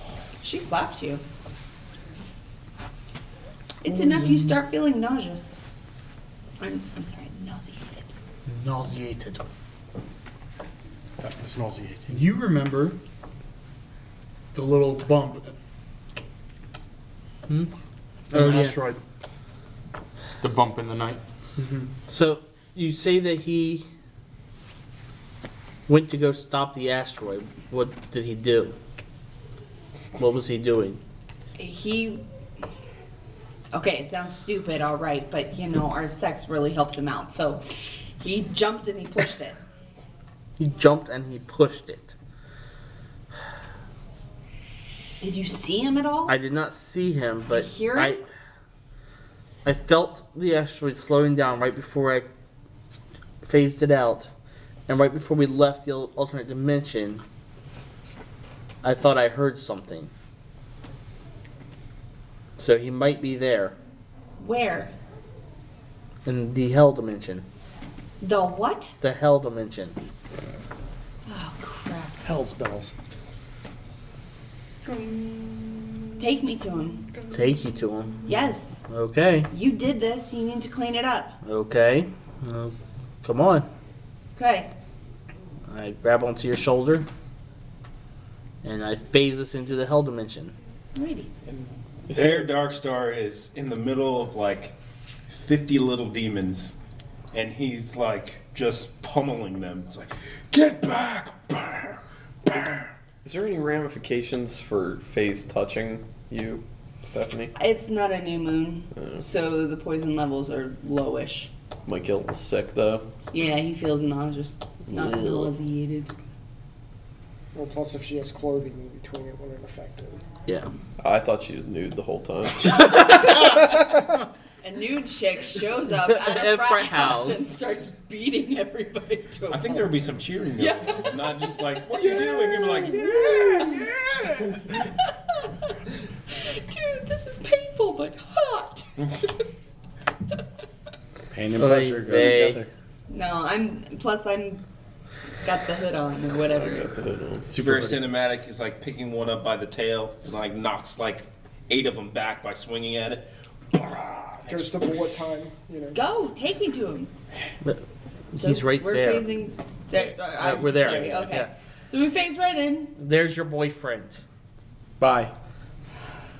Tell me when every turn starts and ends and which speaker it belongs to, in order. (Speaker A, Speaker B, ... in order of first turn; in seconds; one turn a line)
Speaker A: 0.4-1.2
Speaker A: 3.8-5.5
Speaker B: 3.9-4.5
Speaker A: 6.6-8.1
Speaker B: 8.5-9.5
Speaker C: 11.2-12.3
Speaker B: 12.1-13.0
Speaker B: 14.5-15.5
Speaker D: 17.5-17.7
Speaker D: 18.3-18.8
Speaker B: 18.3-19.0
Speaker C: 20.4-21.2
Speaker B: 21.6-21.9
Speaker D: 22.1-23.9
Speaker D: 25.9-28.8
Speaker D: 30.1-31.0
Speaker A: 31.6-32.2
Speaker A: 33.7-37.6
Speaker A: 38.2-39.6
Speaker D: 40.6-42.1
Speaker A: 45.2-46.3
Speaker D: 46.3-48.2
Speaker A: 47.5-48.2
Speaker D: 49.6-52.3
Speaker D: 53.4-54.3
Speaker D: 54.9-57.2
Speaker D: 58.8-60.1
Speaker D: 62.6-63.8
Speaker A: 64.4-64.9
Speaker D: 66.2-67.5
Speaker A: 68.2-69.0
Speaker D: 69.0-70.0
Speaker A: 71.2-72.3
Speaker C: 72.2-72.9
Speaker A: 76.2-77.1
Speaker D: 77.3-78.3
Speaker A: 78.2-78.8
Speaker D: 78.9-79.5
Speaker A: 79.5-81.4
Speaker D: 81.4-83.7
Speaker A: 84.4-84.7
Speaker D: 85.7-87.1
Speaker D: 88.6-90.5
Speaker A: 90.9-91.3
Speaker E: 91.5-94.7
Speaker F: 92.1-92.5
Speaker E: 95.3-96.8
Speaker E: 97.3-102.9
Speaker F: 103.2-107.5
Speaker A: 107.5-111.5
Speaker F: 111.8-113.1
Speaker A: 113.3-116.1
Speaker F: 114.9-115.4
Speaker G: 117.5-120.2
Speaker F: 121.0-123.3
Speaker A: 122.9-123.8
Speaker A: 124.6-135.7
Speaker D: 126.1-127.5
Speaker E: 129.5-133.9
Speaker A: 136.3-139.4
Speaker C: 141.3-142.7
Speaker D: 141.6-142.7
Speaker A: 143.1-144.6
Speaker A: 145.4-147.0
Speaker F: 146.5-147.5
Speaker C: 147.5-148.0
Speaker E: 147.6-154.9
Speaker G: 154.5-156.0
Speaker A: 155.9-157.1
Speaker D: 157.6-159.4
Speaker A: 158.4-162.9
Speaker D: 160.4-161.5
Speaker D: 163.0-164.2
Speaker C: 165.0-165.3